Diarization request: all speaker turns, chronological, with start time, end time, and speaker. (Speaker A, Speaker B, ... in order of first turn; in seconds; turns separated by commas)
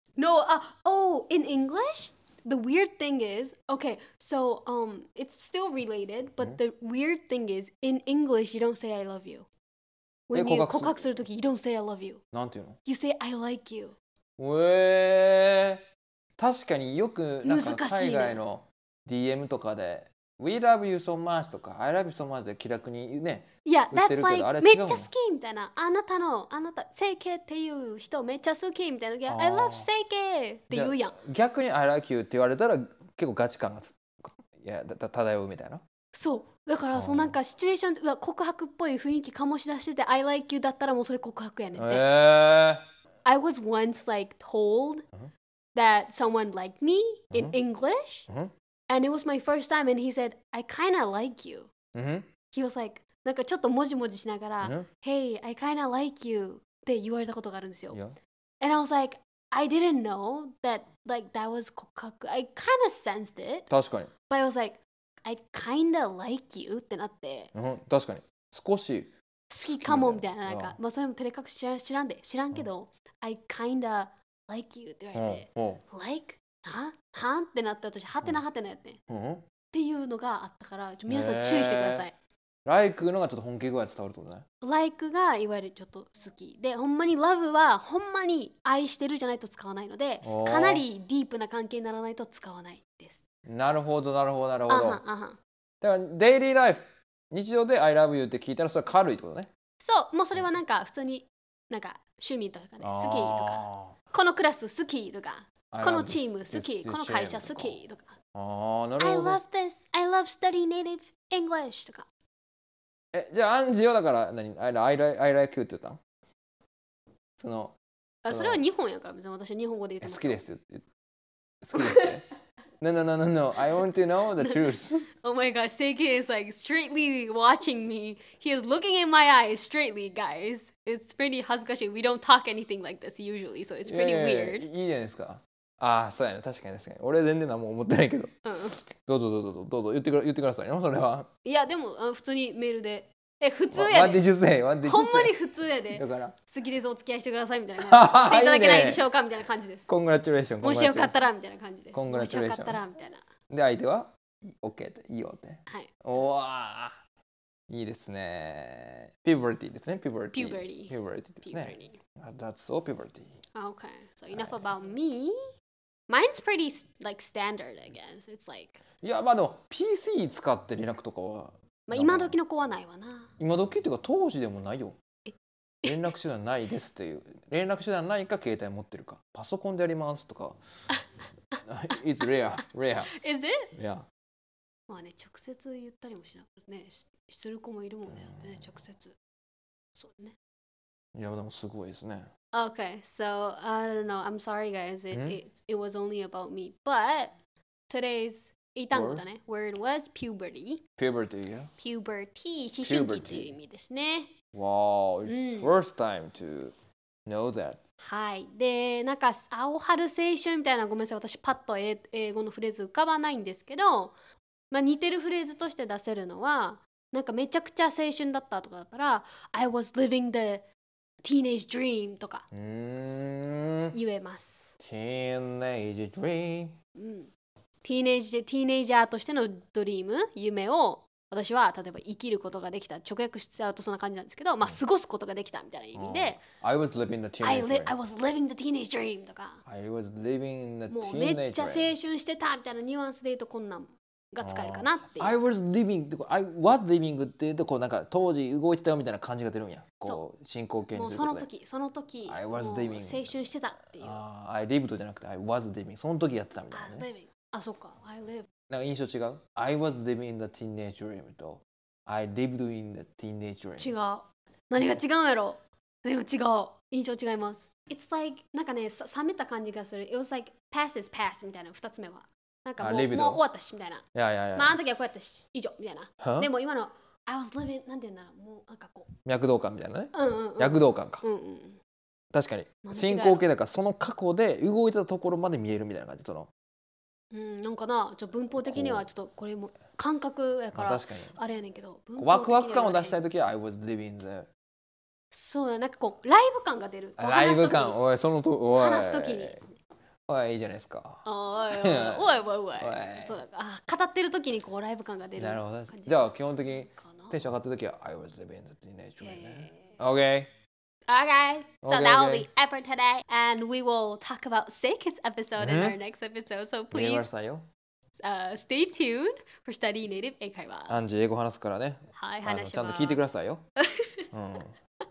Speaker A: 0.2-9.5, Speaker A: 10.3-12.2, Speaker B: 10.3-11.0, Speaker B: 12.3-12.8, Speaker A: 12.9-14.0, Speaker B: 14.4-15.8, Speaker B: 16.4-25.1, Speaker A: 17.4-18.4, Speaker A: 23.6-31.1, Speaker B: 29.3-29.9, Speaker B: 30.7-34.0, Speaker B: 34.5-35.8, Speaker A: 36.1-42.1, Speaker B: 36.9-37.4, Speaker B: 41.8-42.9, Speaker A: 43.2-45.0, Speaker A: 45.8-48.3, Speaker B: 47.3-47.6, Speaker A: 48.9-51.7, Speaker B: 51.9-52.3, Speaker A: 52.5-58.0, Speaker B: 54.6-54.9, Speaker A: 58.6-63.7, Speaker B: 63.7-64.1, Speaker A: 64.3-67.5, Speaker B: 67.5-69.1, Speaker A: 69.5-79.0, Speaker B: 69.6-70.8, Speaker B: 75.1-75.8, Speaker B: 79.1-79.5, Speaker A: 79.7-82.1, Speaker B: 81.1-82.0, Speaker B: 82.7-84.4, Speaker A: 84.6-93.2, Speaker B: 90.2-90.8, Speaker B: 93.5-95.0, Speaker A: 94.7-95.4, Speaker B: 95.8-99.5, Speaker A: 99.8-108.2, Speaker B: 102.8-103.9, Speaker B: 105.7-107.8, Speaker B: 108.3-109.4, Speaker A: 109.0-112.1, Speaker B: 113.1-116.0, Speaker B: 117.4-117.8, Speaker A: 118.2-120.4, Speaker B: 118.3-118.6, Speaker B: 120.0-120.9, Speaker B: 121.6-122.2, Speaker A: 121.8-122.1, Speaker B: 122.8-125.1, Speaker A: 124.4-134.7, Speaker B: 133.9-138.3, Speaker A: 138.4-138.8, Speaker B: 138.9-141.3, Speaker A: 141.4-144.2, Speaker B: 143.7-145.3, Speaker A: 144.8-149.9, Speaker B: 145.9-146.3, Speaker B: 147.8-149.1, Speaker B: 149.9-151.2, Speaker A: 150.6-153.2, Speaker B: 151.9-152.8, Speaker B: 153.5-157.0, Speaker A: 155.7-155.9, Speaker B: 157.7-163.3, Speaker A: 160.3-162.0, Speaker A: 163.6-165.4, Speaker B: 164.3-164.6, Speaker A: 166.1-168.8, Speaker B: 169.0-172.4, Speaker A: 171.9-173.3, Speaker B: 173.4-175.0, Speaker B: 175.8-180.6, Speaker B: 181.6-183.1, Speaker A: 183.1-183.7, Speaker B: 183.7-184.1, Speaker A: 184.9-189.2, Speaker A: 189.9-190.3, Speaker B: 191.2-192.3, Speaker A: 192.5-197.3, Speaker B: 195.1-195.4, Speaker A: 197.9-200.8, Speaker B: 198.9-199.3, Speaker B: 201.0-201.7, Speaker A: 201.8-204.3, Speaker B: 202.8-203.5, Speaker B: 204.5-206.7, Speaker A: 205.3-205.7, Speaker B: 207.3-207.8, Speaker A: 208.0-214.1, Speaker A: 214.7-220.7, Speaker A: 221.2-222.4, Speaker B: 222.5-224.0, Speaker A: 223.9-224.7, Speaker B: 224.8-226.8, Speaker A: 227.0-227.3, Speaker A: 227.8-236.4, Speaker B: 235.9-237.9, Speaker A: 237.4-239.6, Speaker B: 239.7-241.9, Speaker A: 240.9-245.4, Speaker B: 244.4-251.5, Speaker A: 250.9-254.2, Speaker B: 252.3-253.3, Speaker B: 254.0-257.1, Speaker A: 256.7-258.5, Speaker B: 258.7-263.9, Speaker A: 263.8-274.1, Speaker B: 272.8-273.4, Speaker B: 274.1-274.8, Speaker A: 274.6-279.1, Speaker B: 276.2-276.5, Speaker B: 279.3-281.2, Speaker A: 280.1-281.8, Speaker B: 282.3-286.5, Speaker A: 282.8-283.5, Speaker A: 287.3-293.2, Speaker B: 288.6-289.1, Speaker B: 290.8-291.4, Speaker B: 292.2-294.5, Speaker A: 295.3-298.0, Speaker B: 297.2-299.6, Speaker A: 298.8-299.6, Speaker B: 300.3-303.4, Speaker A: 301.2-307.4, Speaker B: 305.4-310.5, Speaker A: 309.2-310.0, Speaker A: 311.1-317.3, Speaker B: 311.8-312.5, Speaker B: 315.6-316.0, Speaker B: 316.9-317.7, Speaker A: 318.2-321.0, Speaker B: 320.9-323.6, Speaker A: 322.1-323.2, Speaker A: 323.8-324.2, Speaker B: 324.3-324.7